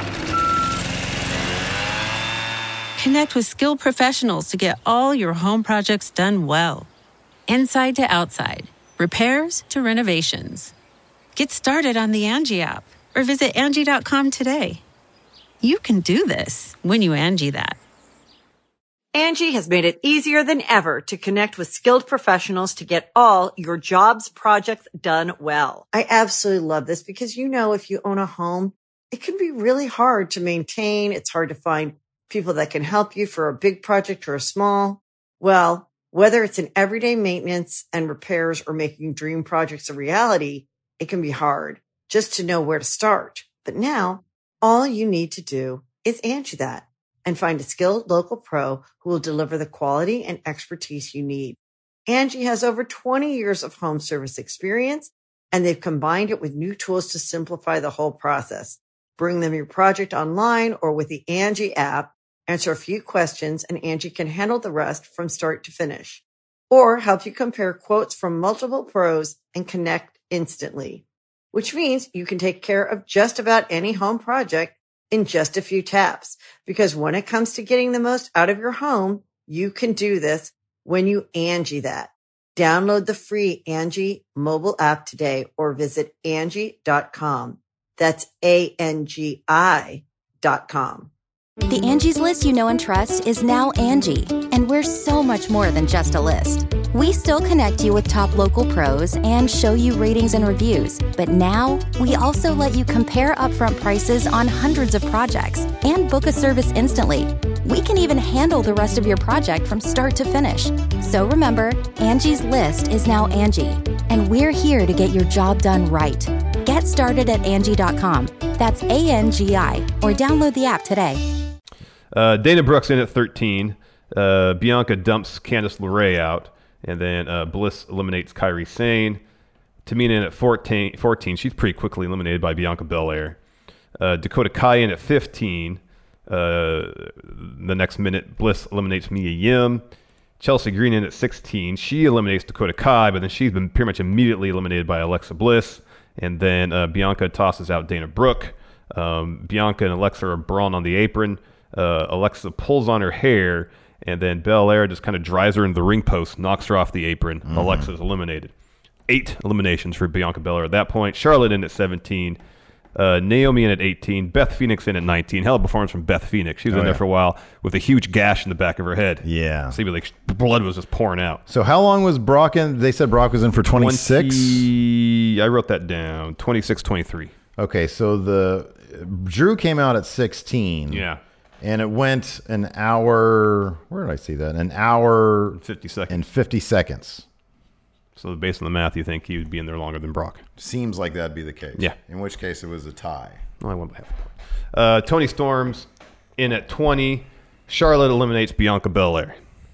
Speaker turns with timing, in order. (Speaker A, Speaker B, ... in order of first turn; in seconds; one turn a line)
Speaker A: 3.0-6.9
Speaker A: 7.5-10.7
Speaker A: 11.3-14.8
Speaker A: 15.6-17.8
Speaker B: 19.1-91.1
Speaker C: 91.7-121.2
Speaker D: 122.1-129.2
Speaker D: 129.8-133.3
Speaker D: 134.0-139.8
Speaker D: 140.4-158.5
Speaker E: 157.5-157.9
Speaker D: 159.1-162.4
Speaker D: 162.9-171.4
Speaker E: 166.7-167.0
Speaker E: 169.2-169.8
Speaker E: 171.5-174.7
Speaker D: 173.8-177.3
Speaker E: 177.6-181.0
Speaker D: 180.9-181.2
Speaker E: 181.6-187.2
Speaker D: 185.6-186.2
Speaker D: 188.2-190.4
Speaker E: 190.6-193.4
Speaker D: 193.6-195.8
Speaker D: 196.4-199.4